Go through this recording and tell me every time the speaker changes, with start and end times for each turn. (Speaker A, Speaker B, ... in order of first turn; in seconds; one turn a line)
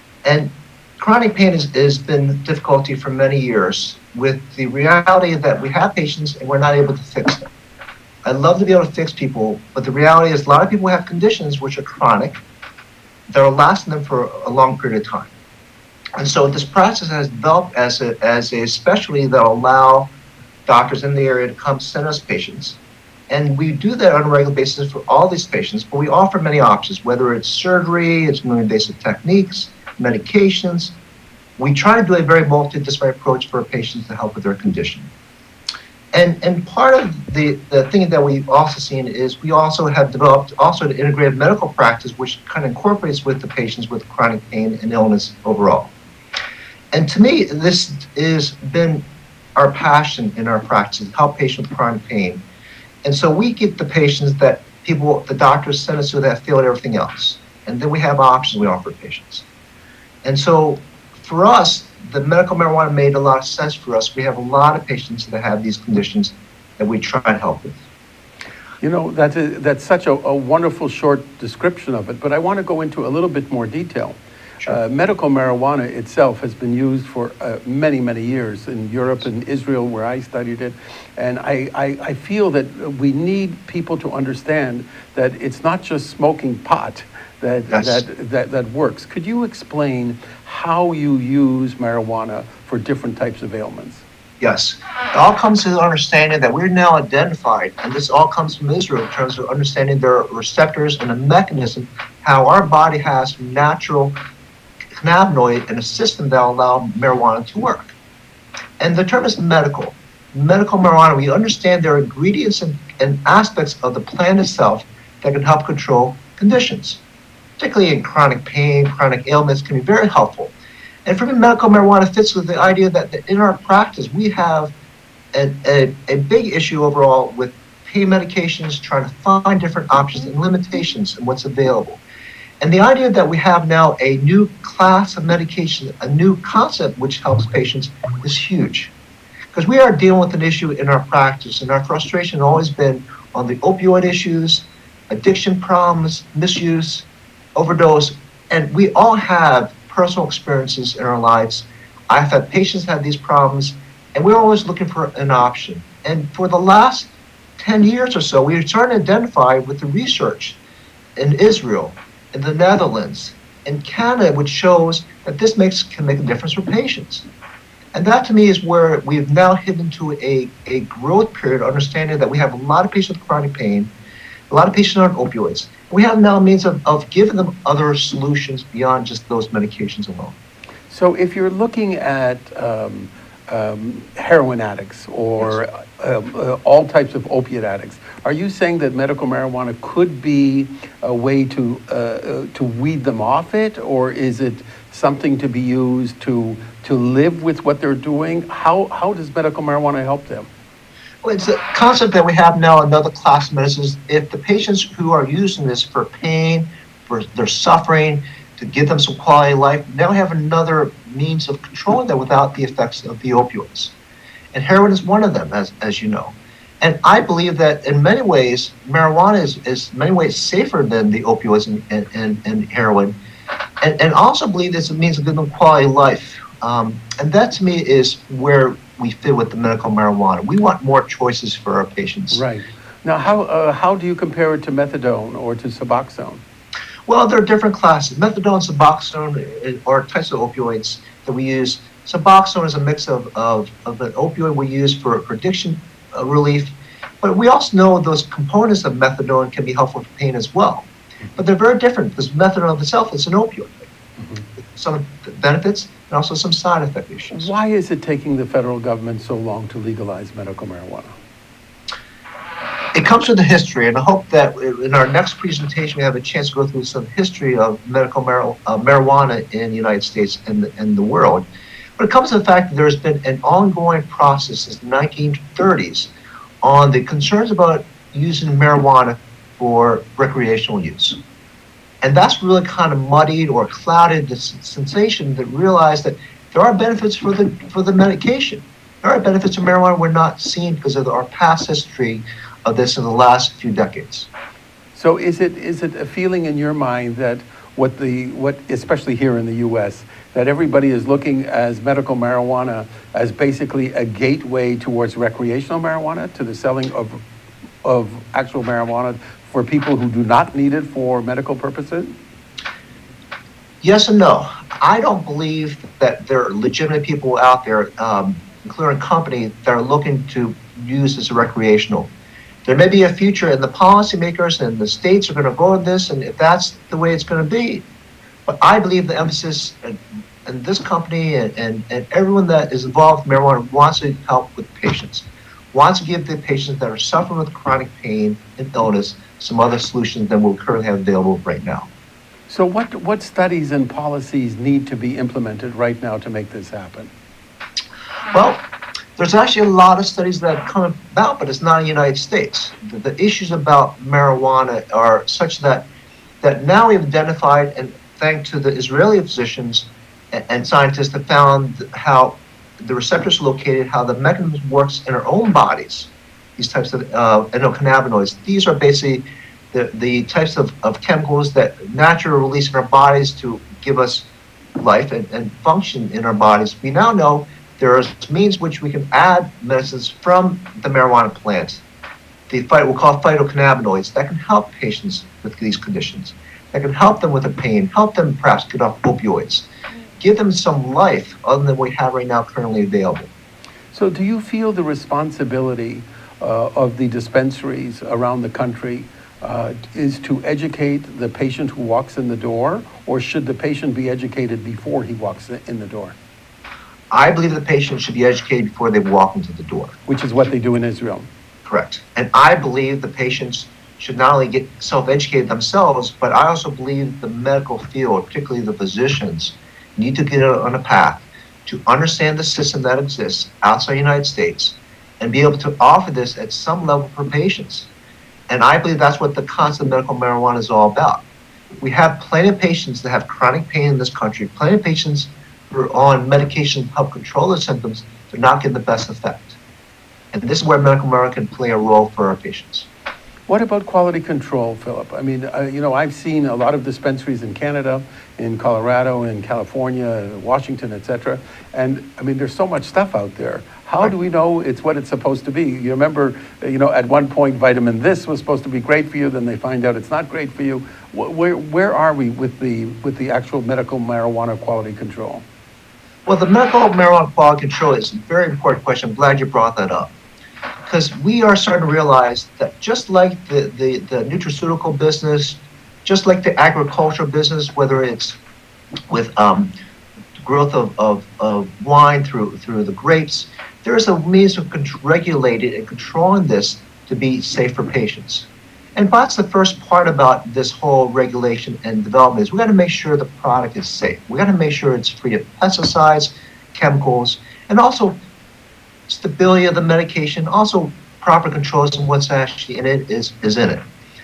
Speaker A: 0.2-7.5
Speaker A: 8.2-12.4
Speaker A: 13.3-15.3
Speaker A: 16.2-20.1
Speaker A: 20.6-22.8
Speaker A: 23.3-30.9
Speaker A: 31.6-35.1
Speaker A: 36.1-45.9
Speaker A: 46.9-52.4
Speaker A: 53.0-59.5
Speaker A: 60.2-67.8
Speaker B: 68.8-94.0
Speaker A: 87.7-88.0
Speaker A: 94.4-104.2
Speaker A: 105.0-107.9
Speaker A: 108.8-117.0
Speaker A: 117.6-120.5
Speaker A: 121.0-124.7
Speaker A: 125.3-132.0
Speaker A: 132.6-138.9
Speaker A: 139.5-160.6
Speaker A: 161.2-167.3
Speaker A: 167.9-173.9
Speaker A: 174.5-180.3
Speaker B: 180.9-200.5
Speaker A: 201.2-213.9
Speaker A: 214.5-223.2
Speaker A: 223.8-232.4
Speaker B: 232.3-236.4
Speaker A: 237.1-253.9
Speaker A: 254.6-257.5
Speaker B: 257.3-261.1
Speaker A: 262.9-271.4
Speaker A: 272.0-276.1
Speaker A: 276.6-281.2
Speaker A: 282.0-294.3
Speaker B: 294.9-307.2
Speaker B: 307.8-312.1
Speaker A: 313.8-322.1
Speaker A: 322.6-327.8
Speaker A: 328.5-341.9
Speaker B: 342.5-347.1
Speaker A: 348.3-348.6
Speaker A: 349.2-355.9
Speaker A: 356.4-381.8
Speaker A: 382.5-389.7
Speaker A: 390.2-393.3
Speaker B: 393.9-406.1
Speaker A: 407.1-409.9
Speaker B: 410.1-411.3
Speaker A: 411.6-427.9
Speaker A: 428.5-431.2
Speaker A: 431.8-439.6
Speaker A: 440.3-442.9
Speaker B: 443.5-465.4
Speaker A: 466.2-470.1
Speaker A: 470.9-478.4
Speaker A: 479.1-479.7
Speaker A: 480.4-498.2
Speaker A: 499.1-503.9